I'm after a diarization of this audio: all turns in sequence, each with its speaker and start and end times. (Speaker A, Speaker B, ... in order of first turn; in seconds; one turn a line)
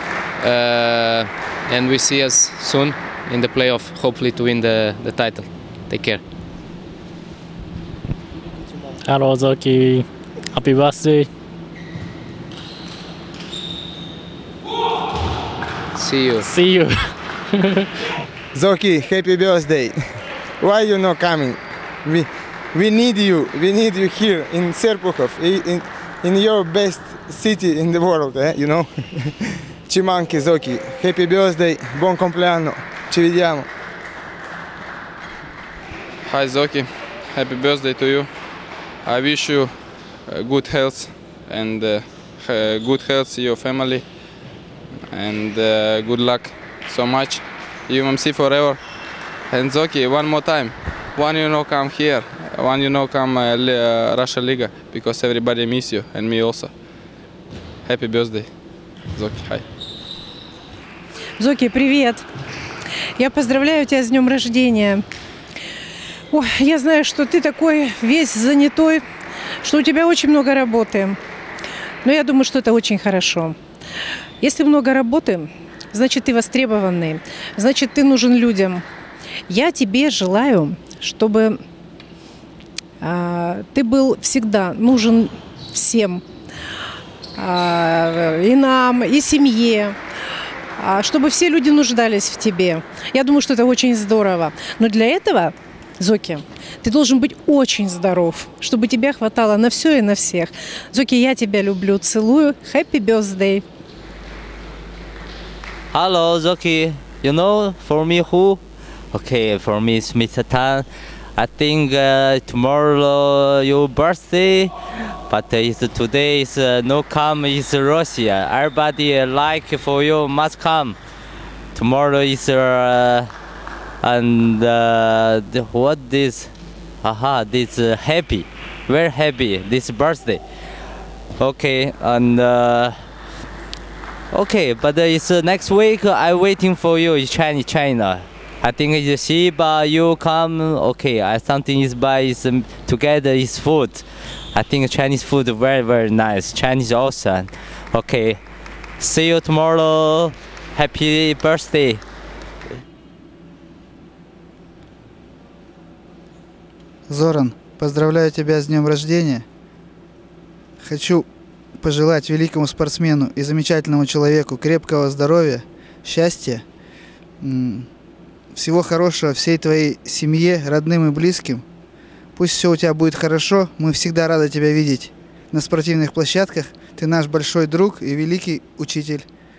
Speaker A: 0.4-6.2
Speaker B: 9.0-11.2
Speaker A: 15.9-16.6
Speaker B: 16.4-17.1
Speaker C: 18.5-33.7
Speaker D: 36.2-38.3
Speaker D: 39.0-39.7
Speaker D: 40.3-44.0
Speaker D: 45.1-48.8
Speaker D: 49.5-56.7
Speaker D: 57.9-58.5
Speaker D: 59.1-59.6
Speaker E: 61.4-62.2
Speaker E: 63.2-65.0
Speaker E: 66.3-69.0
Speaker E: 69.6-71.2
Speaker E: 72.0-73.5
Speaker E: 74.4-78.8
Speaker E: 79.5-81.6
Speaker E: 83.0-86.2
Speaker E: 87.3-90.0
Speaker E: 90.8-103.6
Speaker F: 105.9-108.6
Speaker F: 109.1-114.7
Speaker F: 115.3-121.0
Speaker F: 121.7-123.3
Speaker F: 124.0-126.5
Speaker F: 127.0-130.4
Speaker F: 131.4-133.0
Speaker F: 134.3-148.4
Speaker F: 149.0-152.0
Speaker G: 157.1-159.4
Speaker G: 160.8-161.2
Speaker G: 161.8-166.6
Speaker G: 167.4-167.9
Speaker G: 168.5-171.6
Speaker G: 172.3-179.2